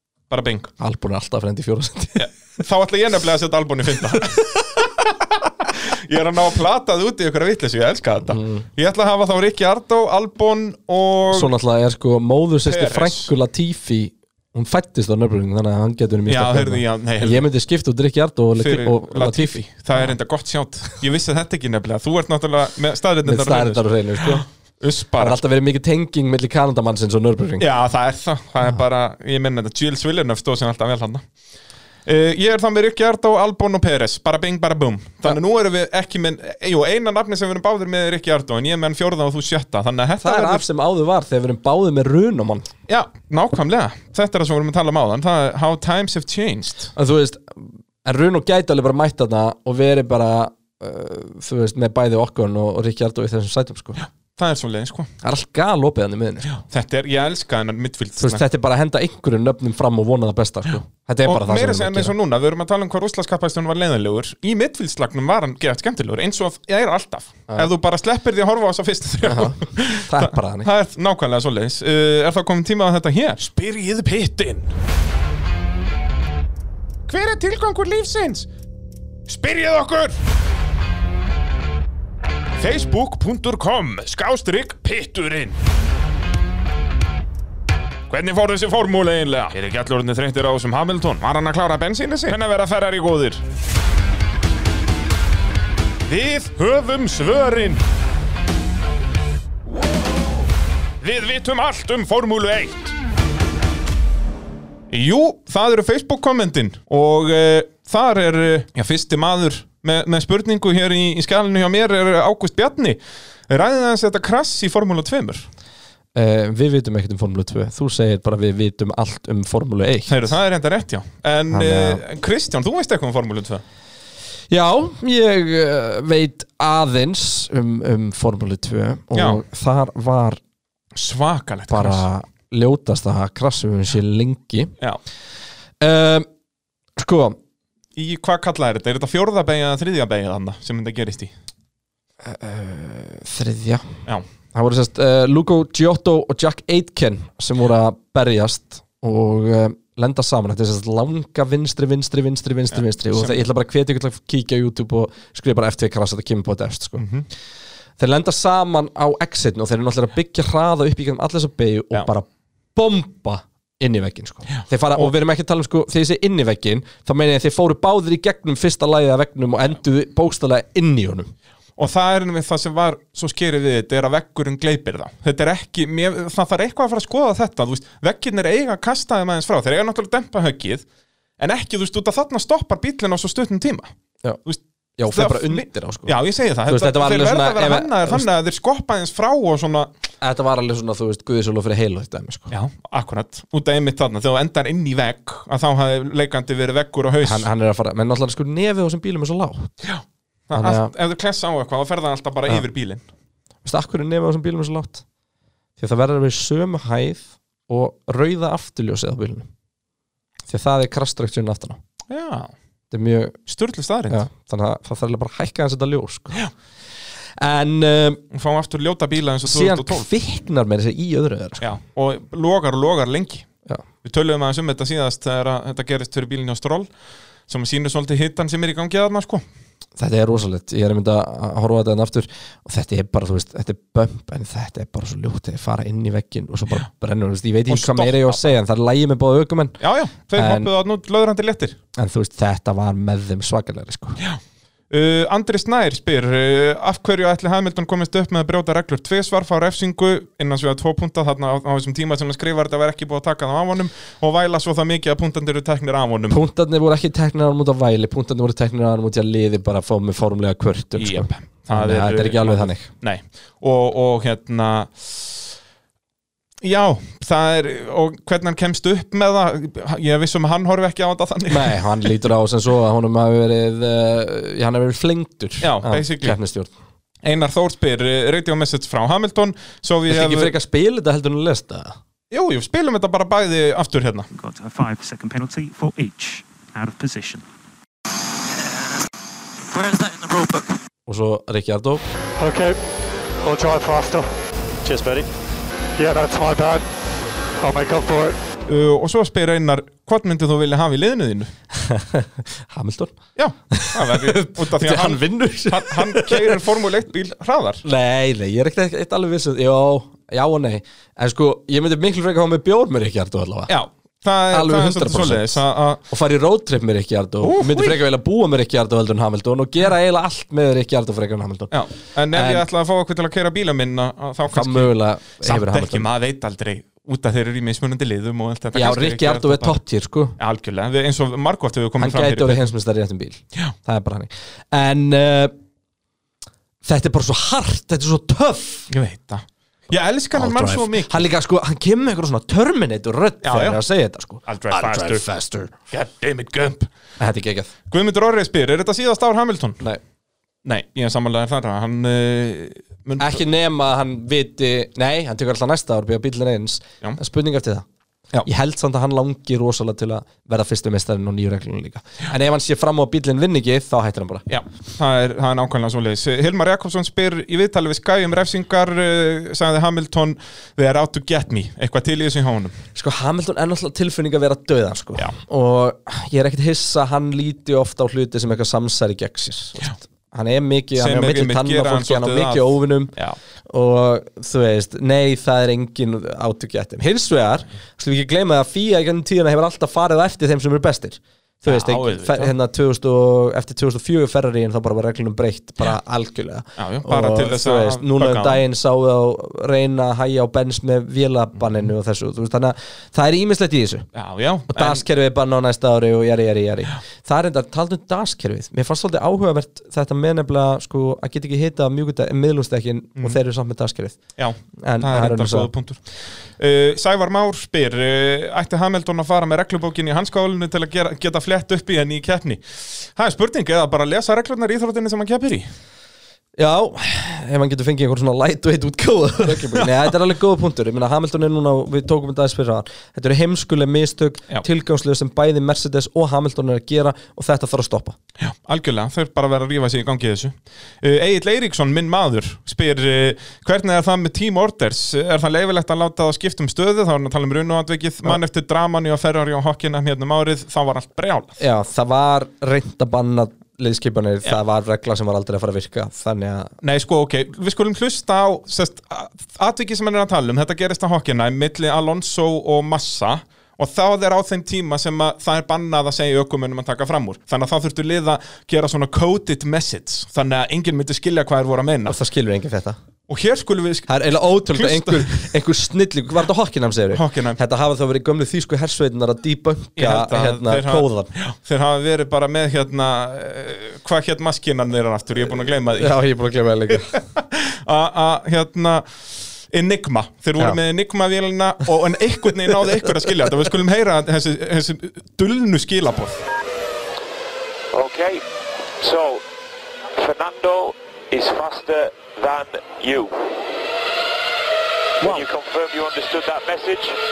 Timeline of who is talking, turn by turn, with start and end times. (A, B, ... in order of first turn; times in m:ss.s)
0:00.3-0:00.7 A
0:00.8-0:02.2 B
0:02.2-0:11.5 A
0:08.3-0:08.6 B
0:11.3-0:20.1 B
0:12.6-0:13.3 A
0:16.3-0:17.4 A
0:18.6-0:25.4 A
0:23.2-0:24.4 B
0:25.2-0:27.6 B
0:27.6-0:31.2 A
0:32.0-0:40.6 A
0:40.2-0:42.7 B
0:42.9-0:46.9 A
0:47.0-0:54.0 B
0:54.0-0:55.1 A
0:55.2-0:56.6 B
0:56.5-0:58.4 A
0:58.2-1:02.1 B
1:01.2-1:14.7 A
1:09.2-1:10.7 B
1:17.1-1:18.5 A
1:19.3-1:20.2 A
1:22.6-1:25.6 A
1:28.1-1:33.4 A
1:36.0-1:37.8 A
1:41.0-1:42.9 A
1:44.9-1:55.5 A
1:56.1-2:00.2 B
2:00.1-2:03.6 A
2:01.5-2:02.0 B
2:04.5-2:10.4 B
2:09.1-2:09.4 A
2:10.9-2:12.0 A
2:11.7-2:14.7 B
2:15.8-2:16.3 B
2:17.0-2:17.4 B
2:18.0-2:21.3 A
2:22.2-2:23.8 B
2:24.5-2:37.0 B
2:32.7-2:33.4 A
2:37.0-2:37.2 A
2:38.0-2:51.3 B
2:44.5-2:45.1 A
2:51.8-3:00.8 A
3:01.4-3:03.9 A
3:04.4-3:09.9 A
3:05.0-3:06.1 B
3:06.7-3:08.2 B
3:10.2-3:12.5 B
3:12.5-3:17.5 A
3:17.2-3:19.7 B
3:19.8-3:23.0 A
3:20.5-3:20.9 B
3:23.6-3:25.0 B
3:25.8-3:29.5 B
3:30.5-3:31.8 B
3:32.1-3:32.5 A
3:32.9-3:33.4 B
3:33.5-3:34.2 A
3:34.1-3:36.4 B
3:37.4-3:38.2 B
3:38.3-3:40.1 A
3:39.4-3:41.7 B
3:41.6-3:43.5 A
3:44.0-3:46.9 A
3:47.5-3:49.4 A
3:50.0-3:59.8 B
3:57.7-3:58.5 A
3:59.8-4:01.8 A
4:00.3-4:00.7 B
4:02.0-4:04.2 B
4:04.2-4:16.4 A
4:16.3-4:22.9 B
4:21.0-4:25.5 A
4:26.6-4:32.1 A
4:31.5-4:36.7 B
4:35.6-4:36.4 A
4:37.2-4:40.5 A
4:40.1-4:42.0 B
4:42.3-4:44.3 A
4:44.4-4:47.4 C
4:49.7-4:50.7 C
4:51.1-4:52.0 B
4:52.4-4:52.8 D
4:53.4-4:54.2 D
4:54.8-4:55.3 D
4:56.0-4:56.8 D
4:57.6-4:58.4 D
4:58.7-5:01.5 A
5:01.8-5:03.1 B
5:03.4-5:07.8 A
5:03.7-5:06.6 B
5:07.8-5:13.7 B
5:13.7-5:16.0 A
5:14.5-5:21.7 B
5:17.4-5:18.0 A
5:21.7-5:29.8 A
5:22.3-5:22.6 B
5:24.5-5:26.1 B
5:28.7-5:30.4 B
5:30.4-5:32.7 A
5:32.0-5:35.5 B
5:36.8-5:38.9 B
5:38.9-5:41.2 A
5:40.3-5:45.7 B
5:43.4-5:43.8 A
5:44.4-5:45.3 A
5:45.9-5:46.9 A
5:47.2-5:47.7 B
5:47.9-5:49.8 A
5:50.6-5:53.4 A
5:53.2-5:57.8 B
5:58.4-6:04.4 B
6:04.5-6:12.8 A
6:12.9-6:23.1 B
6:21.0-6:23.4 A
6:23.7-6:44.0 B
6:31.6-6:32.5 A
6:36.8-6:38.6 A
6:44.1-6:45.0 A
6:44.7-6:54.2 B
6:54.4-6:56.0 A
6:54.8-6:55.7 B
6:56.6-7:05.7 A
7:06.6-7:18.2 B
7:18.4-7:31.6 A
7:31.6-7:36.7 B
7:36.8-7:52.2 A
7:52.0-7:53.0 B
7:53.3-7:55.5 A
7:54.1-8:01.3 B
7:57.1-7:57.6 A
8:00.0-8:06.1 A
8:05.9-8:07.1 B
8:06.9-8:16.4 A
8:17.9-8:18.4 E
8:19.0-8:19.4 E
8:20.2-8:23.3 E
8:25.2-8:27.1 E